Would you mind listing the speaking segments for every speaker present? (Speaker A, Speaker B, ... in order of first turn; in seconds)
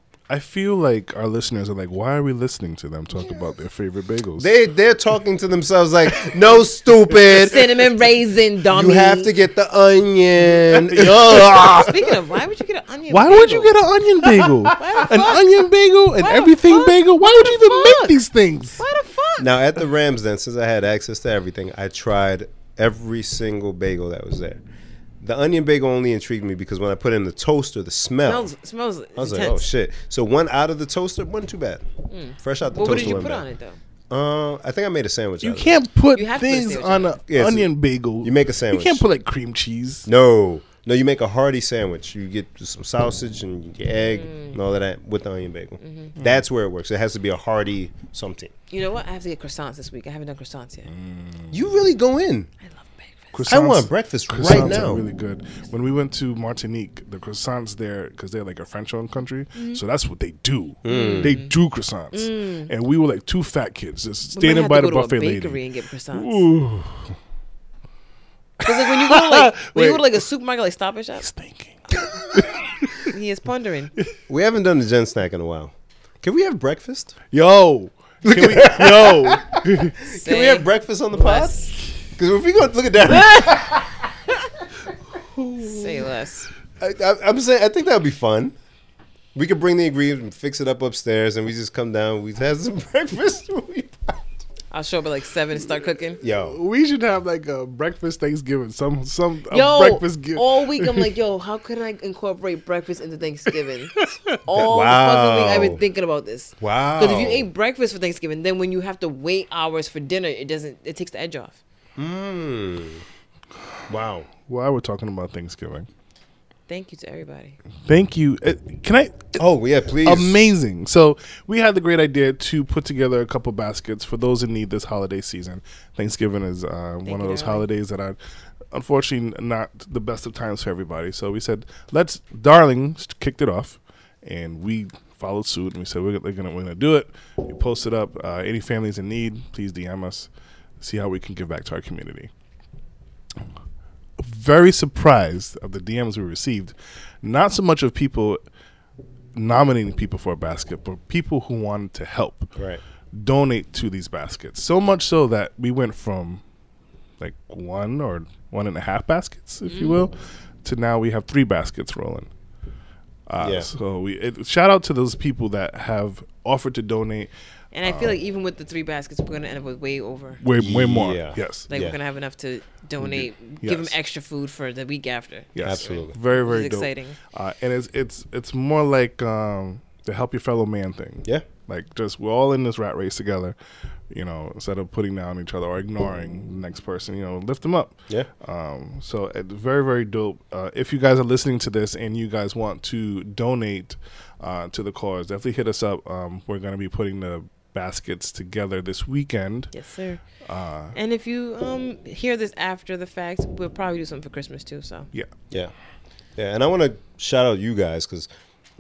Speaker A: 0.3-4.5, 10.7-12.0, 13.1-18.8, 35.4-40.1, 50.9-51.6, 53.3-65.6, 66.1-67.2, 68.6-70.0, 71.2-73.1, 77.3-80.0, 96.4-101.1, 104.0-104.4, 114.5-115.9, 117.9-119.4, 120.0-128.2, 128.7-142.3, 144.2-148.4, 149.3-152.5, 153.1-156.4, 157.2-162.3, 163.3-167.3, 167.8-168.2, 170.4-171.7, 173.0-173.9, 175.6-183.6, 184.1-199.7, 200.4-201.0
Speaker B: 4.4-7.9, 8.7-11.9, 19.4-24.6, 25.2-28.5, 29.2-31.8, 32.4-33.5, 34.1-35.8, 37.3-39.0, 40.1-48.5, 51.5-52.5, 53.5-55.0, 60.8-61.4, 74.3-77.2, 78.2-84.0, 86.8-88.5, 89.3-94.3, 96.2-96.6, 104.5-105.8, 106.6-107.5, 112.0-113.0, 113.9-114.3, 119.4-120.4, 152.6-152.8, 163.4-163.7, 170.6-172.0, 175.6-176.2, 206.4-208.3
Speaker C: 7.2-9.3, 11.8-18.2, 18.8-19.5, 28.2-29.6, 32.1-33.8, 36.1-37.2, 44.1-44.6, 45.8-46.1, 48.7-50.9, 52.7-53.3, 59.5-59.8, 60.9-61.5, 62.1-62.7, 64.3-66.5, 68.6-71.3, 73.0-73.9, 80.1-81.7, 83.1-83.5, 85.6-86.5, 94.7-96.2, 99.5-111.6, 116.7-117.6, 127.0-127.7, 159.7-160.0, 167.7-170.4, 171.7-177.2, 199.7-200.2, 200.9-205.1